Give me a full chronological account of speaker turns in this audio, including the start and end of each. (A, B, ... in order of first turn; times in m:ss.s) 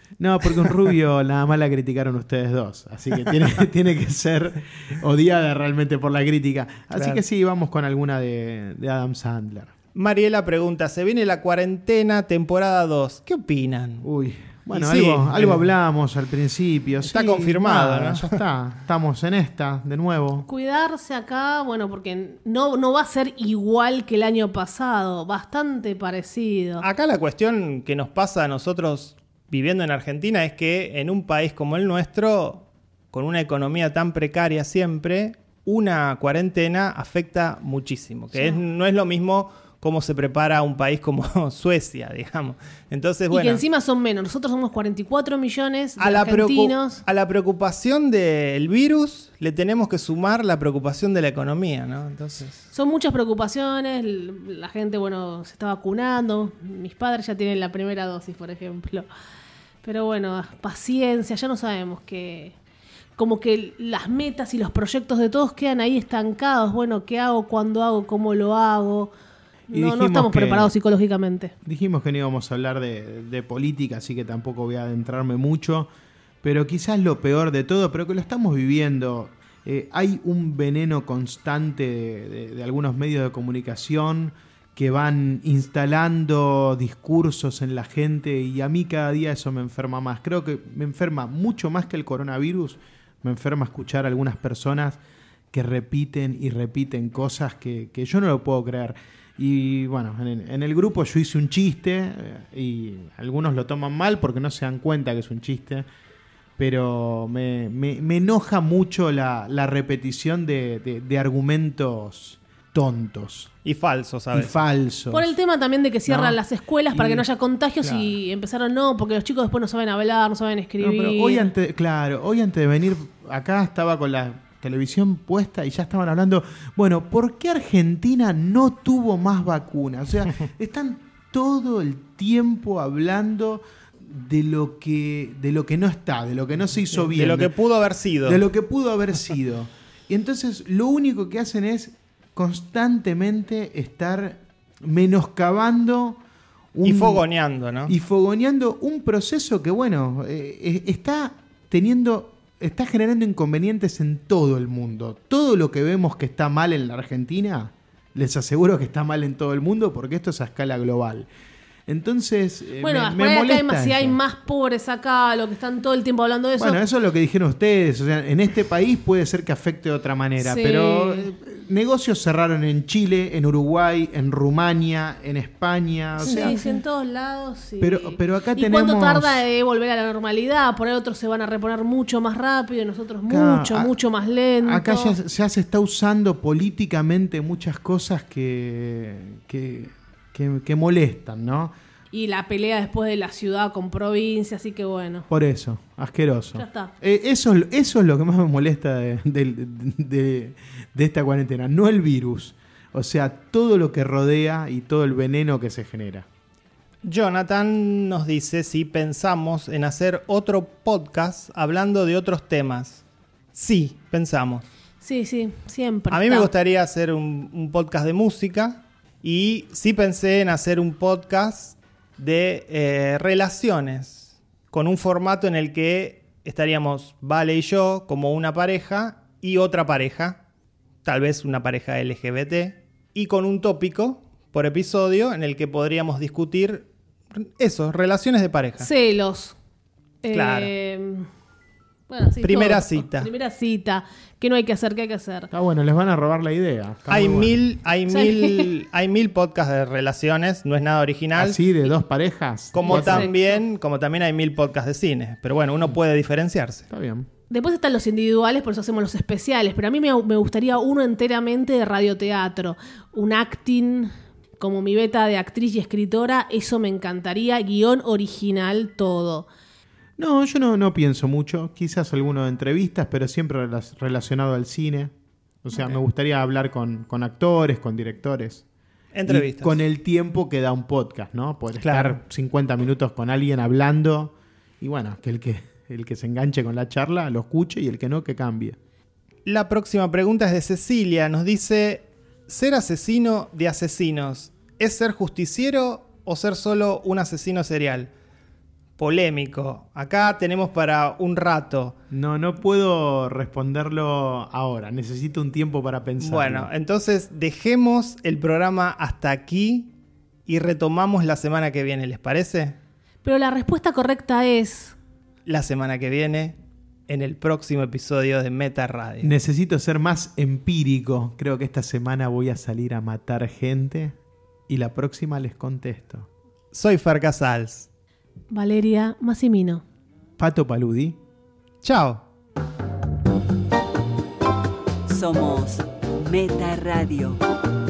0:00.2-0:09.7 A
0:06.9-0:07.2 B
0:09.9-0:14.1 B
0:14.0-0:20.4 A
0:14.7-0:15.6 B
0:17.1-0:18.4 B
0:20.5-0:26.8 C
0:26.8-0:43.6 B
0:38.3-0:38.6 C
0:43.3-0:47.0 C
0:46.0-0:52.6 B
0:52.7-0:59.1 C
0:59.8-1:02.6 C
1:03.2-1:09.1 C
1:09.7-1:10.7 A
1:09.7-1:11.5 C
1:11.6-1:15.9 A
1:16.4-1:35.0 A
1:35.5-1:45.8 A
1:46.6-1:53.5 A
1:53.6-1:54.6 B
1:54.3-1:55.3 A
1:55.1-2:01.5 C
1:56.1-1:56.4 A
1:56.9-1:57.2 A
1:57.8-1:58.2 A
2:00.8-2:17.5 A
2:17.0-2:18.4 B
2:18.2-2:26.2 A
2:26.7-2:27.2 A
2:26.8-2:27.9 B
2:27.8-2:41.3 A
2:41.9-2:44.2 A
2:42.8-2:46.8 C
2:46.6-2:56.6 A
2:50.4-2:51.3 C
2:56.2-3:05.1 C
2:57.8-2:59.4 A
3:03.3-3:03.9 A
3:04.6-3:11.7 A
3:12.1-3:15.3 C
3:15.3-3:26.2 A
3:16.6-3:16.9 C
3:27.0-3:33.0 B
3:33.5-3:34.6 B
3:35.0-3:36.5 C
3:36.1-3:50.4 B
3:51.0-3:58.9 B
3:58.8-3:59.6 C
4:00.2-4:01.3 C
4:00.3-4:00.7 B
4:02.1-4:05.5 C
4:02.4-4:03.3 B
4:05.5-4:07.5 A
4:07.1-4:11.6 B
4:08.1-4:08.7 C
4:11.4-4:13.3 A
4:12.7-4:16.8 B
4:12.8-4:13.4 C
4:16.9-4:17.3 A
4:17.5-4:29.5 C
4:30.2-4:35.1 A
4:35.6-4:38.6 A
4:39.1-4:39.8 B
4:39.3-4:48.8 A
4:41.8-4:42.2 B
4:49.4-4:58.1 B
4:59.0-5:02.0 B
5:02.1-5:06.7 A
5:06.2-5:09.9 B
5:10.5-5:12.8 B
5:13.2-5:15.0 C
5:15.4-5:16.5 B
5:17.1-5:19.3 B
5:19.2-5:24.1 A
5:24.7-5:26.3 A
5:26.7-5:27.9 B
5:28.5-5:29.8 C
5:30.4-5:31.2 A
5:31.8-5:32.2 B
5:35.1-5:37.4 D